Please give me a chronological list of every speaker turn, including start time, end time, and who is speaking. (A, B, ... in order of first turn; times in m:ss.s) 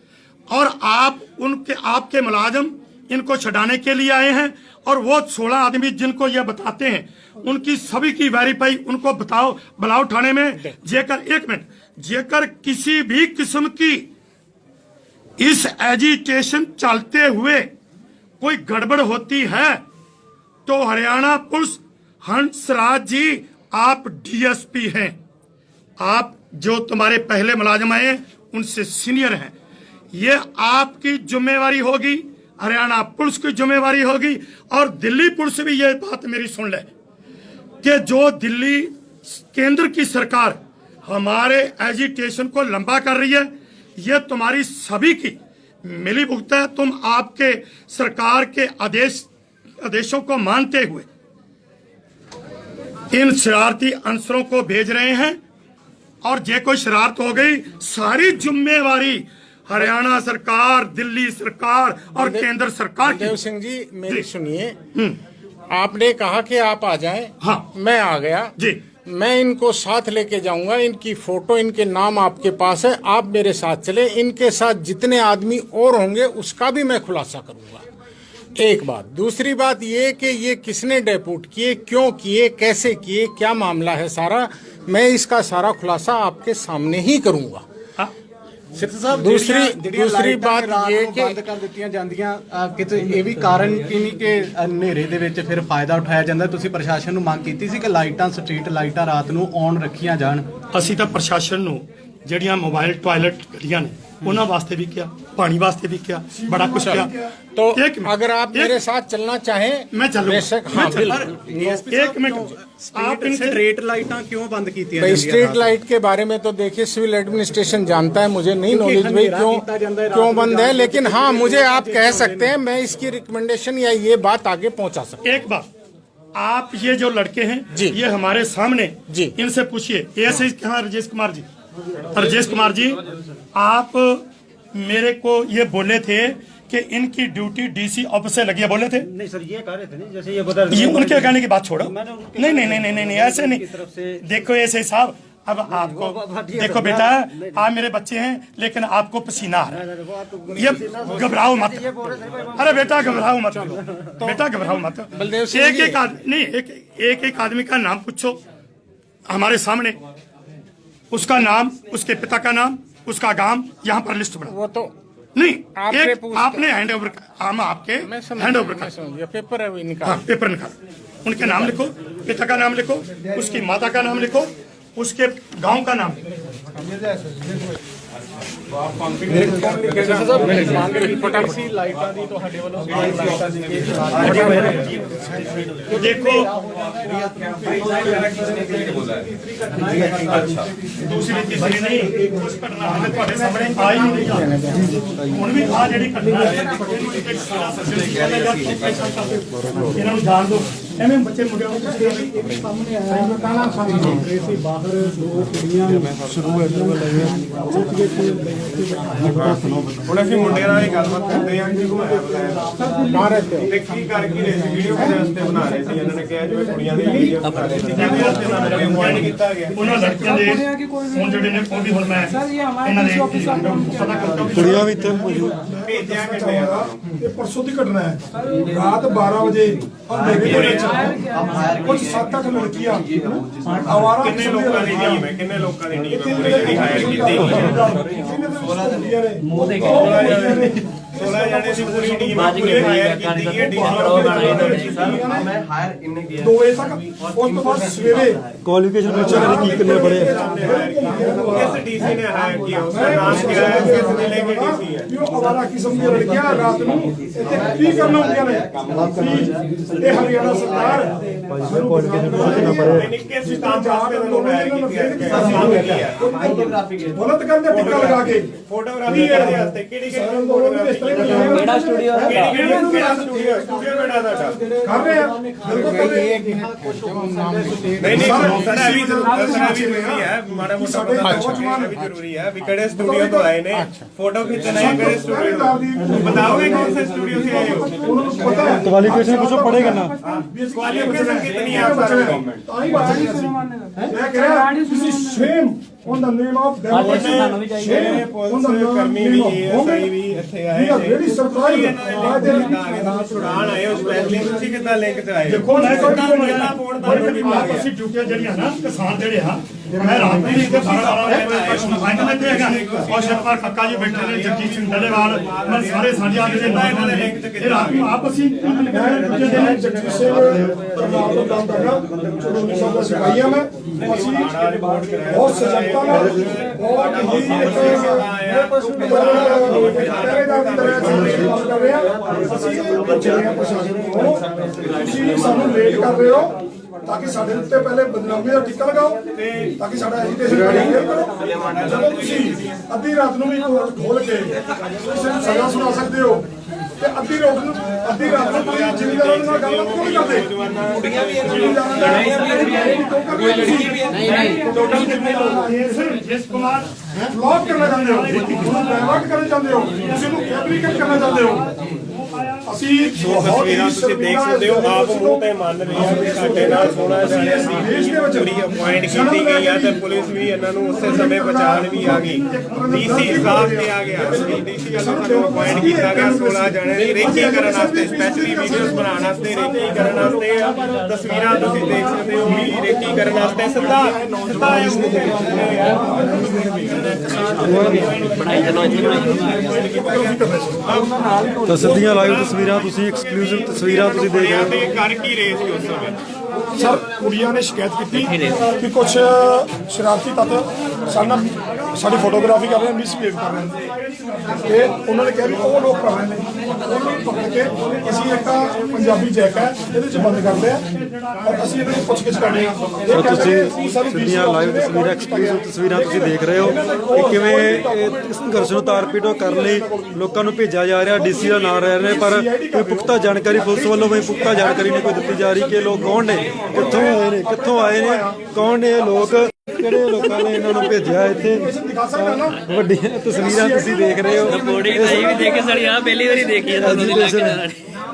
0:00.5-0:14.0 A
0:15.4-0:17.7 A
0:18.4-0:19.8 A
0:20.7-0:25.2 A
0:26.0-0:29.5 A
0:30.1-0:36.9 A
0:37.8-0:49.3 A
0:49.8-0:51.1 A
0:53.1-0:55.4 A
0:56.2-1:03.4 A
1:02.2-1:02.5 B
1:03.0-1:04.8 B
1:05.7-1:08.5 B
1:07.4-1:07.7 A
1:09.0-1:17.8 B
1:18.6-1:27.6 B
1:28.7-1:40.5 C
1:29.1-1:31.4 B
1:40.7-1:47.1 A
1:46.4-1:47.3 D
1:47.6-1:52.5 B
1:47.7-1:48.8 A
1:49.9-1:51.3 A
1:51.0-1:55.7 C
1:51.9-1:53.6 A
1:55.0-2:05.2 B
1:58.7-2:02.6 C
2:05.2-2:05.7 A
2:06.4-2:11.5 A
2:09.1-2:09.3 B
2:12.1-2:13.0 A
2:13.6-2:14.2 A
2:14.8-2:19.1 A
2:19.0-2:24.2 E
2:20.7-2:23.7 A
2:24.2-2:29.8 A
2:25.7-2:27.6 E
2:29.7-2:33.4 E
2:30.5-2:31.9 A
2:32.6-2:38.4 A
2:33.5-2:34.4 B
2:35.1-2:36.0 B
2:39.3-2:40.0 A
2:41.1-2:44.5 A
2:44.5-2:44.9 B
2:45.4-2:48.9 A
2:45.8-2:46.6 B
2:48.0-2:50.2 B
2:50.0-2:56.2 A
2:51.4-2:51.7 B
2:56.8-2:57.6 C
2:59.2-3:05.1 C
2:59.9-3:01.6 B
3:04.2-3:04.7 A
3:04.2-3:04.7 B
3:05.9-3:10.7 C
3:05.9-3:06.5 A
3:11.0-3:14.6 A
3:11.3-3:12.5 C
3:12.8-3:14.9 B
3:13.4-3:14.5 C
3:15.3-3:22.3 A
3:21.8-3:30.0 C
3:23.1-3:24.2 B
3:30.0-3:32.7 F
3:31.0-3:31.5 C
3:32.8-3:33.8 C
3:33.1-3:33.7 B
3:33.7-3:40.2 F
3:37.9-3:45.3 A
3:38.0-3:39.3 D
3:44.5-3:45.6 G
3:45.3-3:55.3 D
3:45.8-3:46.9 F
3:50.3-3:50.9 F
3:54.2-3:58.0 F
3:56.0-4:03.1 D
3:59.8-4:05.2 F
4:02.3-4:05.4 H
4:03.6-4:05.5 D
4:06.3-4:08.4 D
4:08.6-4:10.4 G
4:09.0-4:12.1 D
4:09.2-4:15.1 F
4:12.9-4:28.5 D
4:21.5-4:23.1 E
4:22.4-4:26.3 F
4:27.7-4:31.7 F
4:29.0-4:33.6 D
4:31.2-4:32.7 H
4:32.2-4:34.6 F
4:34.8-4:36.4 D
4:35.4-4:38.2 C
4:35.7-4:39.0 B
4:38.0-4:48.8 F
4:38.1-4:42.0 D
4:41.2-4:41.7 B
4:42.8-4:43.5 D
4:43.7-4:44.1 B
4:44.7-5:00.2 D
4:46.1-4:46.6 G
4:48.8-4:50.2 G
4:50.3-4:52.6 F
4:56.9-4:58.1 H
4:57.0-5:07.9 F
5:00.7-5:04.8 D
5:05.4-5:07.9 D
5:05.5-5:19.8 A
5:10.0-5:11.5 D
5:10.0-5:18.2 F
5:18.9-5:24.7 D
5:19.4-5:22.9 E
5:24.0-5:31.7 F
5:25.3-5:39.2 D
5:39.4-5:39.7 F
5:39.8-5:46.4 D
5:41.4-5:42.6 F
5:47.0-5:56.2 D
5:48.3-5:55.6 F
5:54.5-5:56.9 A
5:57.2-6:01.7 D
5:58.2-5:58.9 A
6:00.1-6:00.5 A
6:02.0-6:02.7 A
6:02.7-6:10.2 D
6:03.2-6:31.1 F
6:10.9-6:33.0 D
6:27.6-6:28.2 G
6:28.2-6:29.8 H
6:31.7-6:34.8 G
6:33.6-6:36.2 F
6:36.8-6:43.8 D
6:38.1-6:38.7 H
6:44.5-6:50.8 D
6:51.4-7:00.2 D
6:53.1-7:15.6 G
7:01.1-7:08.3 D
7:09.8-7:12.6 D
7:13.3-7:15.9 D
7:14.4-7:17.8 H
7:16.6-7:17.6 G